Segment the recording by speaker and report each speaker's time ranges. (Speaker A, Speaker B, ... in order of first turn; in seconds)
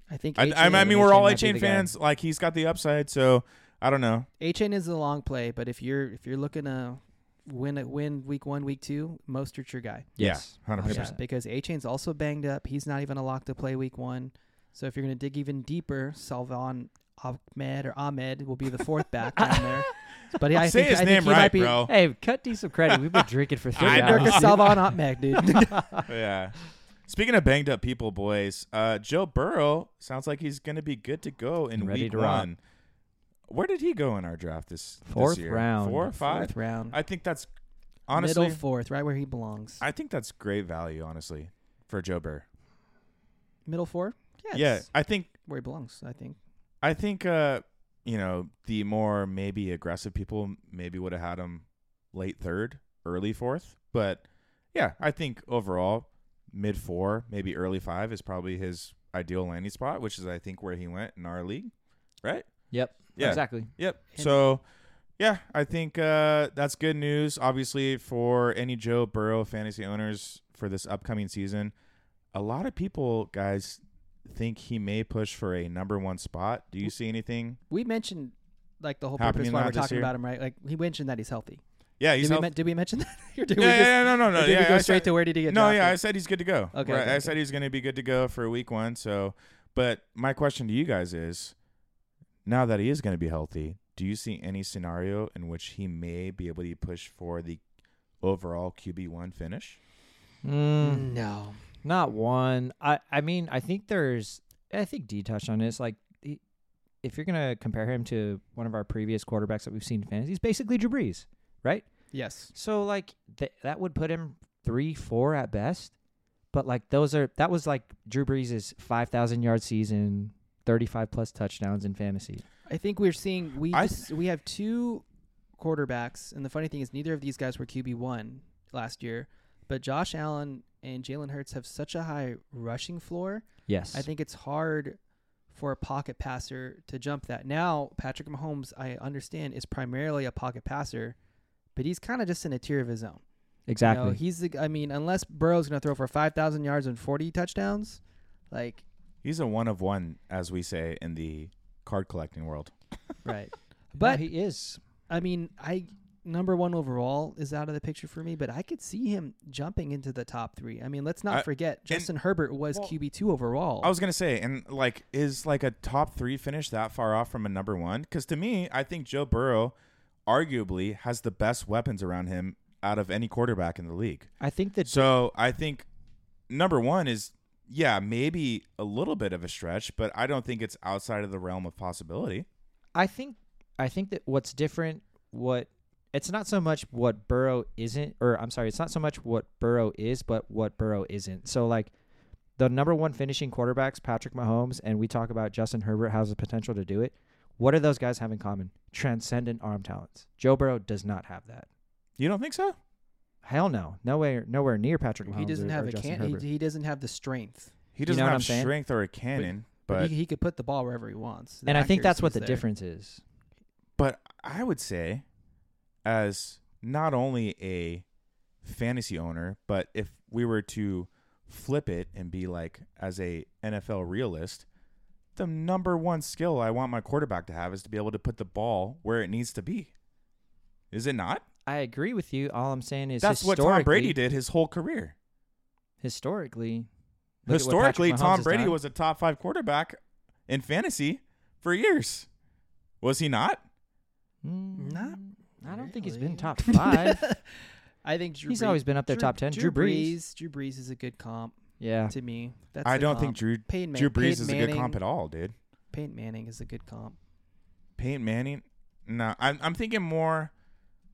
Speaker A: 0.1-1.2, 4.4-10.2, 10.8-21.9, 23.8-26.0, 36.2-37.0, 38.2-39.8, 43.7-46.4, 64.1-64.4, 77.7-81.6, 82.2-86.0, 86.7-87.3, 100.8-101.6, 112.1-112.5, 122.7-125.0, 125.6-135.0, 135.5-141.2, 141.8-143.2, 143.8-148.0, 148.5-148.8, 153.2-154.2, 155.1-163.9, 205.3-207.7, 209.4-212.6, 244.8-247.5, 248.0-251.6, 252.1-255.0, 255.9-257.2
Speaker B: 0.4-4.3, 10.2-11.1, 20.5-21.9, 23.8-24.7, 26.1-32.6, 33.5-37.5, 38.1-38.6, 39.8-42.5, 44.5-45.3, 46.8-61.7, 62.2-62.5, 63.1-64.6, 65.2-71.7, 72.3-77.6, 79.2-80.1, 82.0-82.5, 83.6-91.5, 92.5-97.6, 98.2-99.8, 123.7-124.0, 149.2-152.7, 161.3-162.1, 163.8-169.8, 170.3-174.3, 174.9-175.9, 176.5-182.5, 202.2-202.8, 207.9-210.1, 214.0-215.2, 216.1-218.1, 218.6-224.7, 225.4-229.9, 230.9-231.4, 233.2-235.2, 237.5-242.3, 243.0-243.6, 252.8-255.6, 258.0-260.5
Speaker C: 0.7-1.9, 10.2-11.2, 19.4-19.8, 21.9-26.0, 31.8-32.5, 35.1-36.1, 62.7-63.7, 100.4-101.1, 101.8-106.4, 107.0-111.9, 112.5-115.9, 116.5-122.4, 133.7-134.1, 143.7-144.2, 154.0-154.8, 174.4-175.1, 182.9-191.9, 192.6-201.7, 203.4-206.4, 208.1-208.7, 211.7-213.2, 231.7-234.2, 236.0-236.9, 237.5-238.8, 244.4-247.3, 248.5-250.2, 251.8-252.2